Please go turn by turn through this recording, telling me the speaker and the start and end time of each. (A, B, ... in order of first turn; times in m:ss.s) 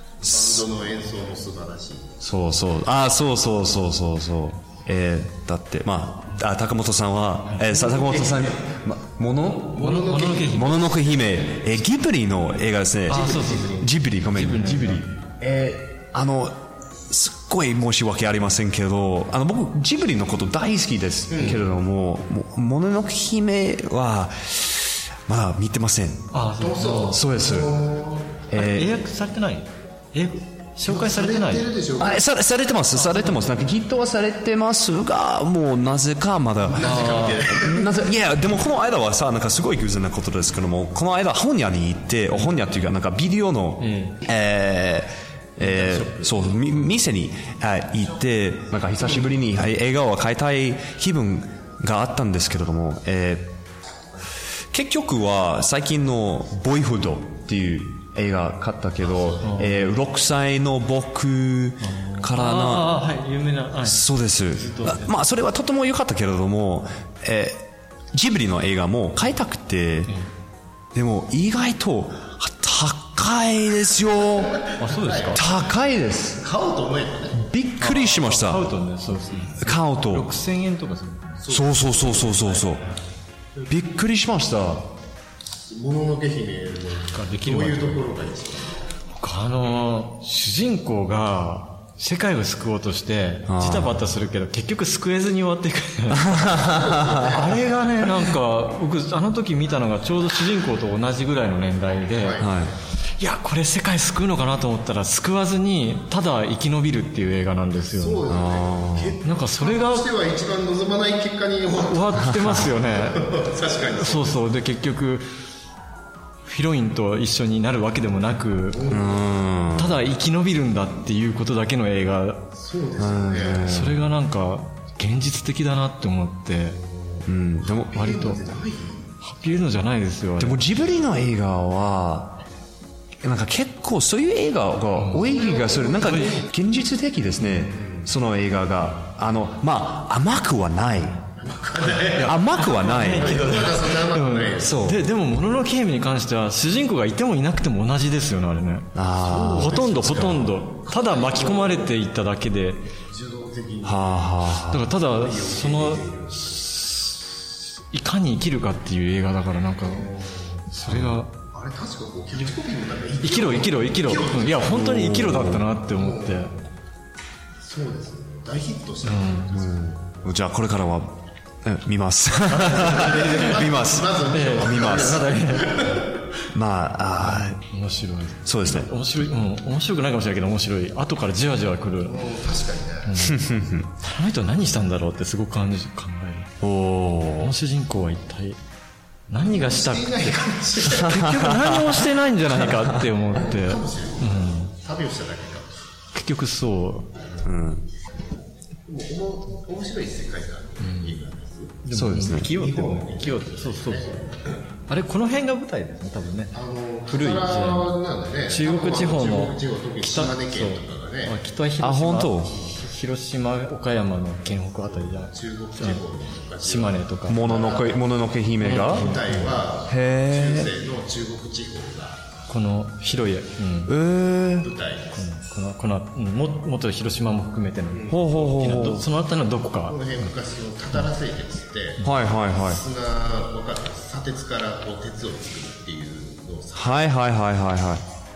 0:00.2-0:02.1 A
0:00.3-0:00.6 B
0:02.2-0:09.8 B
0:07.7-0:08.6 A
0:09.7-0:11.7 A
0:09.8-0:10.7 C
0:10.4-0:26.3 B
0:13.1-0:15.1 C
0:13.1-0:13.9 A
0:21.3-0:21.6 A
0:26.3-0:27.2 C
0:26.6-0:28.5 A
0:27.1-0:27.7 B
0:28.5-0:29.0 B
0:28.5-0:31.7 C
0:30.8-0:32.2 A
0:32.0-0:53.6 B
0:36.6-0:37.9 A
0:36.8-0:37.4 C
0:43.8-0:44.2 C
0:45.6-0:46.8 C
0:54.7-1:03.0 B
0:59.0-0:59.7 A
0:59.4-0:59.7 C
1:01.8-1:05.1 C
1:03.8-1:10.1 B
1:10.9-1:14.5 B
1:14.3-1:15.8 A
1:14.8-1:15.4 C
1:15.3-1:16.4 B
1:16.4-1:17.5 A
1:17.4-1:18.6 B
1:17.8-1:21.4 C
1:19.6-1:20.3 B
1:21.4-1:23.0 A
1:21.5-1:22.8 B
1:23.7-1:24.9 B
1:25.7-1:28.8 A
1:27.1-1:28.1 C
1:29.2-1:36.6 C
1:33.5-1:34.0 B
1:36.1-1:37.2 B
1:36.5-1:37.5 A
1:37.2-1:42.4 C
1:42.1-1:42.6 A
1:42.4-1:42.7 B
1:43.2-1:48.3 C
1:47.8-1:54.4 A
1:48.3-1:49.2 B
1:49.2-1:50.1 C
1:51.8-1:55.2 C
1:52.2-1:52.7 B
1:56.4-1:58.8 C
1:58.7-1:59.2 A
1:58.9-1:59.9 B
1:59.8-2:02.4 C
2:02.5-2:03.7 A
2:03.0-2:04.0 B
2:03.6-2:06.8 C
2:06.6-2:09.1 A
2:07.2-2:08.0 B
2:07.9-2:08.4 C
2:09.2-2:10.6 C
2:10.4-2:12.4 B
2:13.2-2:21.2 B
2:14.9-2:15.3 C
2:15.1-2:16.5 A
2:16.0-2:16.4 C
2:17.6-2:18.1 A
2:21.4-2:24.9 A
2:22.1-2:28.9 C
2:22.2-2:23.6 B
2:24.6-2:25.0 B
2:28.9-2:30.5 B
2:29.2-2:32.0 A
2:29.6-2:32.8 C
2:33.1-2:34.4 A
2:33.8-2:34.9 B
2:34.7-2:40.1 C
2:35.0-2:36.6 A
2:39.8-2:40.7 A
2:40.7-2:41.3 C
2:40.9-2:41.2 B
2:41.5-2:44.9 A
2:43.2-2:46.5 C
2:44.6-2:45.7 B
2:45.8-2:46.4 A
2:47.6-2:50.2 A
2:49.0-2:49.5 C
2:49.5-2:55.2 B
2:52.5-2:56.0 A
2:52.6-2:53.6 C
2:54.3-2:55.9 C
2:56.5-2:57.6 B
2:57.2-3:02.3 C
2:58.4-2:58.9 B
3:02.0-3:03.1 A
3:03.0-3:06.5 C
3:03.2-3:03.9 B
3:06.6-3:07.5 B
3:07.4-3:08.6 C
3:09.3-3:14.7 C
3:09.3-3:11.4 A
3:10.9-3:13.0 B
3:13.3-3:15.7 A
3:16.1-3:17.1 C
3:17.4-3:17.8 B
3:18.9-3:24.6 A
3:20.8-3:21.2 C
3:21.8-3:24.2 C
3:21.9-3:22.5 B
3:24.9-3:26.5 C
3:26.5-3:31.3 A
3:27.1-3:27.9 C
3:28.5-3:36.0 C
3:31.8-3:32.5 B
3:34.7-3:38.0 A
3:36.6-3:37.4 C
3:37.3-3:39.1 B
3:38.6-3:39.6 C
3:38.7-3:42.2 A
3:39.9-3:40.7 B
3:42.5-3:43.9 C
3:43.9-3:44.7 B
3:44.6-3:45.2 A
3:45.1-3:50.3 C
3:47.9-3:48.5 A
3:48.1-3:49.0 B
3:49.8-3:52.0 A
3:52.0-3:52.8 B
3:52.5-3:57.1 A
3:56.7-3:58.0 B